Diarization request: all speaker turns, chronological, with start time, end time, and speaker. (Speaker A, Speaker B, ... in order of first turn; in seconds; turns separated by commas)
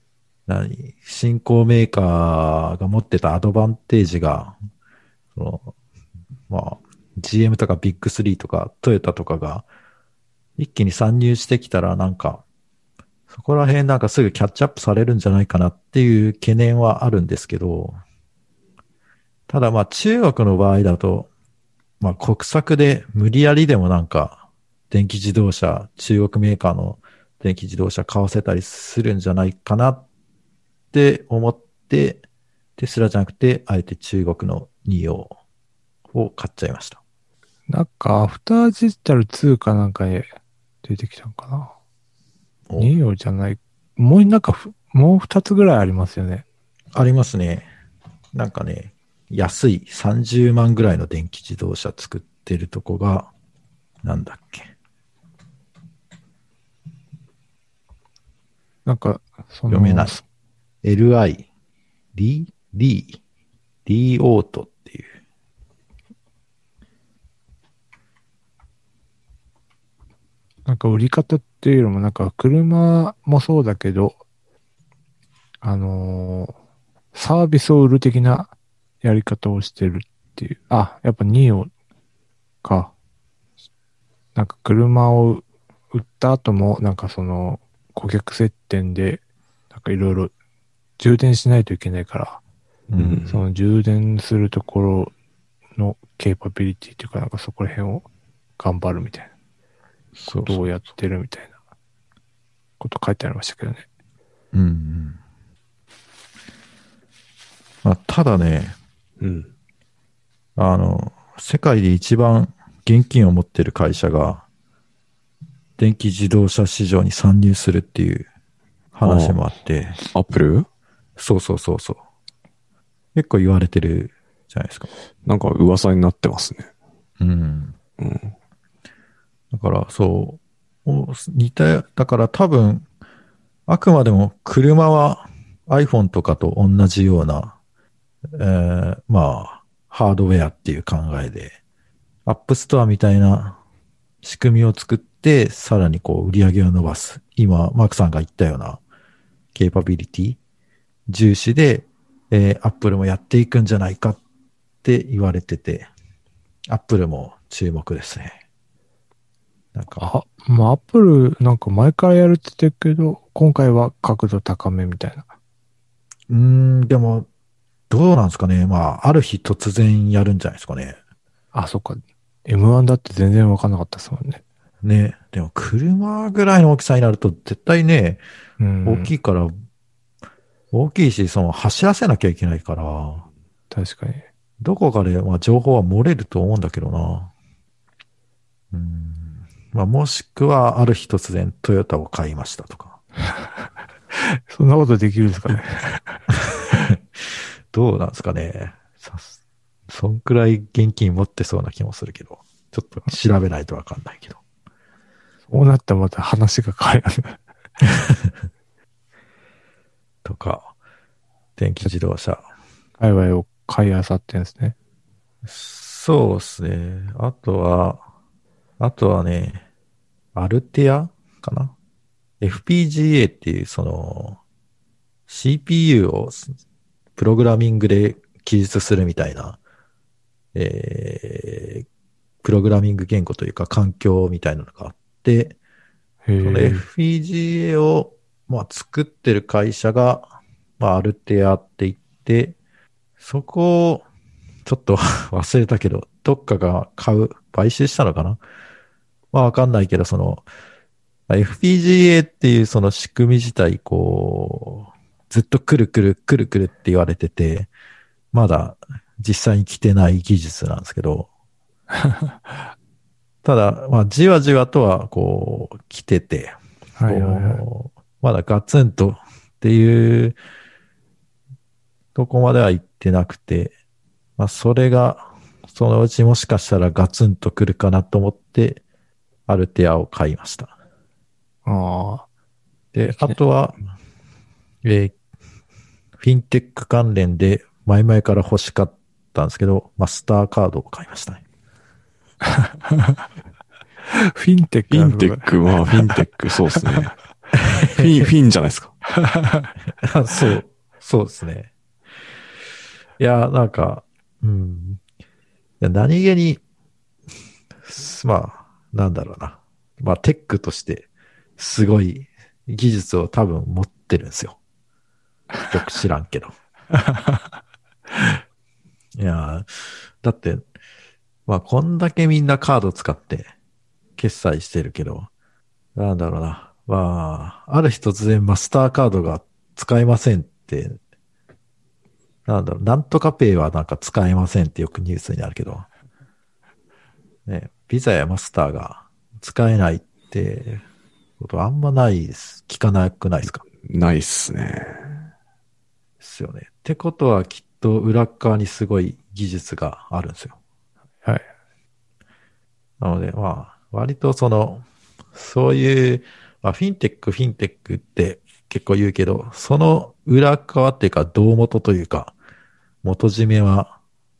Speaker A: 0.5-4.6, Speaker A: 5.3-5.7, Speaker A: 6.5-9.7, Speaker A: 10.6-12.4, Speaker A: 13.3-18.0, Speaker A: 19.5-21.3, Speaker A: 22.0-30.0, Speaker A: 30.9-32.2, Speaker A: 32.8-35.3, Speaker A: 36.1-37.0, Speaker B: 37.7-40.3, Speaker B: 40.8-41.7, Speaker A: 42.7-42.9, Speaker B: 42.8-46.4, Speaker A: 46.9-47.7, Speaker A: 48.3-53.3, Speaker A: 54.0-54.7, Speaker B: 58.9-60.2, Speaker A: 59.7-60.1, Speaker A: 60.8-61.5, Speaker A: 62.1-63.2, Speaker A: 63.9-65.1, Speaker B: 70.7-74.2, Speaker B: 75.6-76.5, Speaker B: 77.1-81.7, Speaker B: 82.6-82.9, Speaker B: 84.3-90.3, Speaker B: 91.0-92.4, Speaker A: 92.9-93.2, Speaker C: 93.0-93.4, Speaker B: 93.3-95.1, Speaker B: 95.8-98.1, Speaker B: 98.6-99.3, Speaker A: 100.2-100.7, Speaker B: 100.4-101.5, Speaker B: 102.8-103.8, Speaker A: 104.5-105.2, Speaker A: 107.8-108.8, Speaker C: 109.2-109.5, Speaker A: 110.6-114.4, Speaker A: 115.8-118.3, Speaker A: 118.9-120.0, Speaker C: 119.0-119.4, Speaker C: 120.1-120.7, Speaker A: 121.2-122.0, Speaker A: 123.1-124.9, Speaker C: 125.2-126.7, Speaker A: 127.2-127.8, Speaker C: 128.0-128.3, Speaker A: 129.5-132.8, Speaker A: 133.7-137.6, Speaker A: 138.3-141.6, Speaker A: 142.2-143.6, Speaker A: 144.2-148.8, Speaker A: 149.5-150.4, Speaker A: 151.1-154.2, Speaker A: 154.8-155.9, Speaker A: 156.7-158.4, Speaker A: 159.7-160.1, Speaker B: 160.0-165.2, Speaker A: 166.3-167.3, Speaker A: 167.9-171.0, Speaker B: 171.5-174.4, Speaker A: 174.8-178.2, Speaker B: 178.6-179.1, Speaker A: 178.8-179.5, Speaker A: 180.7-183.2, Speaker B: 183.7-184.2, Speaker A: 184.6-187.3, Speaker A: 188.7-193.0, Speaker B: 194.5-196.2, Speaker A: 196.5-199.3, Speaker A: 199.9-204.4, Speaker B: 205.5-207.4, Speaker A: 207.8-208.3, Speaker A: 210.2-210.7, Speaker A: 211.6-212.4, Speaker B: 213.0-214.7, Speaker A: 215.4-218.0, Speaker A: 218.8-219.6, Speaker A: 220.3-221.7, Speaker A: 222.4-224.4, Speaker A: 225.3-226.5, Speaker A: 227.2-229.6, Speaker A: 230.5-231.8, Speaker A: 232.4-235.6, Speaker B: 236.2-236.8, Speaker A: 236.4-240.3, Speaker A: 240.8-242.6, Speaker A: 243.2-244.0, Speaker A: 244.6-248.4, Speaker A: 249.3-250.4, Speaker A: 251.3-257.7, Speaker A: 258.3-261.3, Speaker A: 263.4-266.6, Speaker B: 267.0-267.6, Speaker A: 267.1-270.4, Speaker A: 272.1-273.7, Speaker A: 274.4-278.8, Speaker A: 279.5-280.7, Speaker B: 281.6-282.2, Speaker A: 282.9-283.8, Speaker A: 284.8-285.1, Speaker A: 286.2-291.4, Speaker B: 294.1-296.2, Speaker C: 294.9-297.2, Speaker A: 297.6-298.1, Speaker C: 297.8-298.9, Speaker B: 299.2-299.7, Speaker A: 300.0-301.7, Speaker A: 303.2-305.0, Speaker A: 305.8-306.6, Speaker A: 307.8-314.6, Speaker A: 315.7-316.5, Speaker B: 316.9-317.4, Speaker A: 319.2-320.6, Speaker A: 321.5-323.5, Speaker A: 324.2-325.3, Speaker A: 325.9-331.0, Speaker A: 332.4-335.9, Speaker A: 337.4-340.8, Speaker A: 341.4-343.6, Speaker C: 343.8-345.2, Speaker A: 346.2-350.6, Speaker A: 353.0-362.3, Speaker A: 363.0-363.9